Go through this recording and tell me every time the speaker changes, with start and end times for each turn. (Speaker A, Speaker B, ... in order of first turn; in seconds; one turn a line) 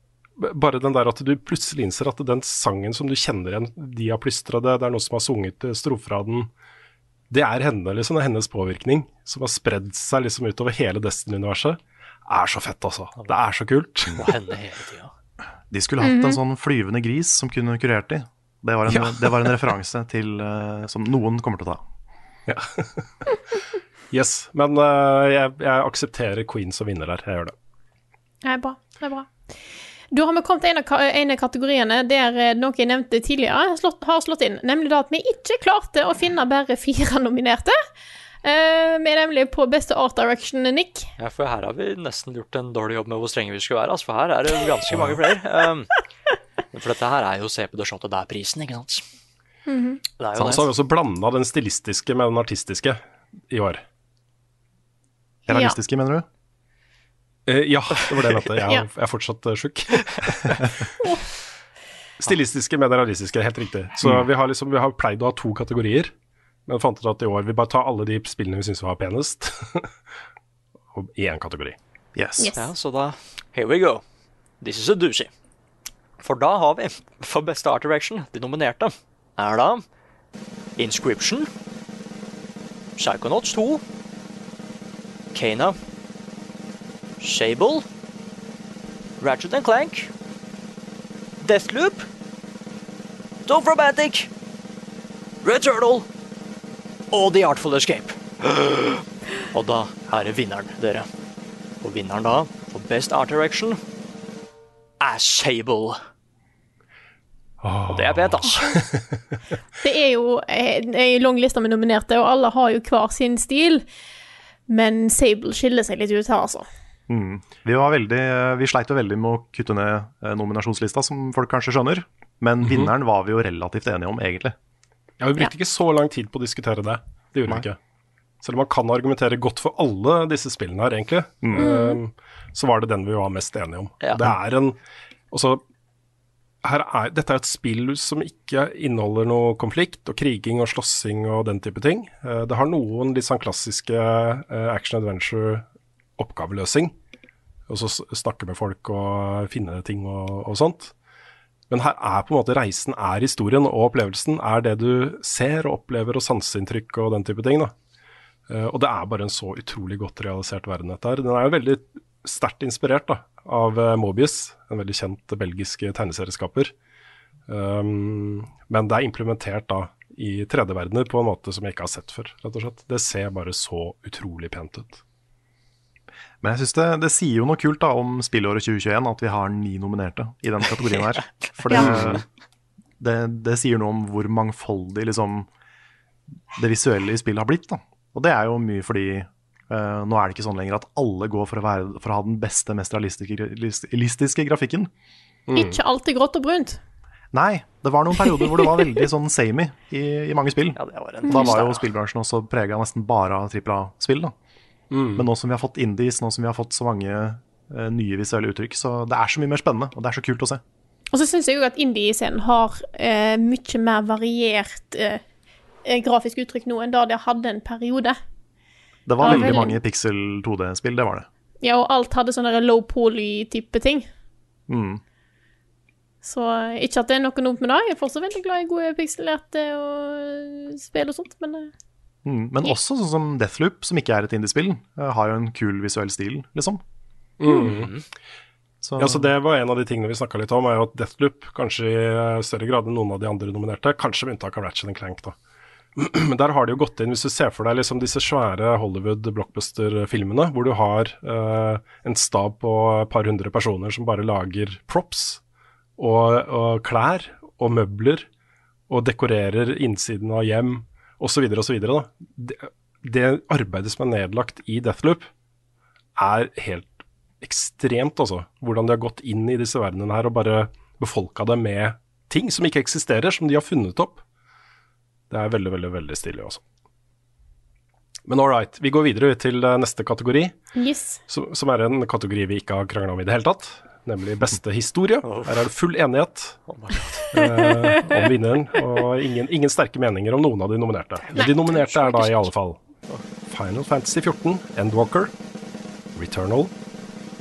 Speaker A: 0.4-6.5
Speaker A: 7.3-14.3
Speaker B: 14.2-15.1
Speaker C: 15.7-21.8
Speaker D: 16.0-16.4
Speaker A: 18.9-19.6
Speaker A: 22.5-23.4
Speaker A: 24.1-27.5
Speaker D: 28.4-29.3
Speaker D: 30.1-37.8
Speaker D: 38.4-41.1
Speaker B: 41.2-45.9
Speaker B: 46.7-49.0
Speaker D: 49.7-50.0
Speaker B: 50.2-50.7
Speaker A: 50.4-53.8
Speaker C: 55.5-56.2
Speaker D: 55.5-55.7
Speaker A: 57.5-60.9
Speaker A: 62.2-66.1
Speaker A: 66.7-69.9
Speaker A: 70.9-71.8
Speaker C: 72.1-72.5
Speaker D: 72.4-72.7
Speaker B: 72.5-74.0
Speaker B: 74.6-75.3
Speaker B: 76.2-79.8
Speaker B: 80.8-81.5
Speaker B: 83.0-83.8
Speaker B: 85.3-85.8
Speaker B: 87.2-87.8
Speaker B: 89.2-90.1
Speaker B: 91.4-92.1
Speaker B: 93.5-94.3
Speaker B: 95.4-96.1
Speaker B: 97.1-101.1
Speaker B: 101.8-103.8
Speaker B: 105.0-106.0
Speaker A: 107.6-109.2
Speaker B: 107.9-108.8
Speaker D: 109.8-113.8
Speaker D: 114.7-116.7
Speaker C: 117.1-124.5
Speaker A: 122.6-122.9
Speaker A: 125.2-127.8
Speaker A: 128.4-134.8
Speaker C: 131.4-131.7
Speaker D: 131.6-132.0
Speaker B: 134.0-134.3
Speaker A: 135.3-135.6
Speaker A: 136.6-145.6
Speaker A: 146.2-146.9
Speaker A: 147.7-150.9
Speaker A: 151.7-157.7
Speaker A: 158.5-166.7
Speaker A: 167.5-175.0
Speaker C: 176.4-182.2
Speaker D: 181.7-181.9
Speaker A: 181.8-182.2
Speaker C: 183.0-185.5
Speaker C: 186.5-194.9
Speaker A: 195.5-195.8
Speaker D: 195.5-196.8
Speaker C: 197.3-204.3
Speaker B: 200.8-201.8
Speaker D: 201.2-201.6
Speaker A: 204.9-205.2
Speaker C: 205.2-210.6
Speaker D: 211.1-215.2
Speaker D: 215.8-218.2
Speaker C: 219.1-221.3
Speaker D: 219.2-219.8
Speaker A: 219.2-219.6
Speaker D: 221.6-224.1
Speaker C: 224.7-225.0
Speaker D: 226.2-231.7
Speaker C: 232.2-236.8
Speaker A: 237.4-237.9
Speaker B: 237.6-238.0
Speaker C: 238.8-239.3
Speaker A: 239.0-245.3
Speaker A: 245.9-255.4
Speaker A: 256.0-258.3
Speaker A: 258.9-265.3
Speaker A: 266.2-274.2
Speaker A: 275.3-276.6
Speaker A: 278.2-280.6
Speaker D: 280.7-281.2
Speaker A: 281.3-286.6
Speaker B: 285.2-285.7
Speaker B: 286.7-287.3
Speaker A: 287.3-292.8
Speaker D: 287.4-287.8
Speaker D: 291.3-292.4
Speaker A: 293.5-295.3
Speaker A: 296.1-296.7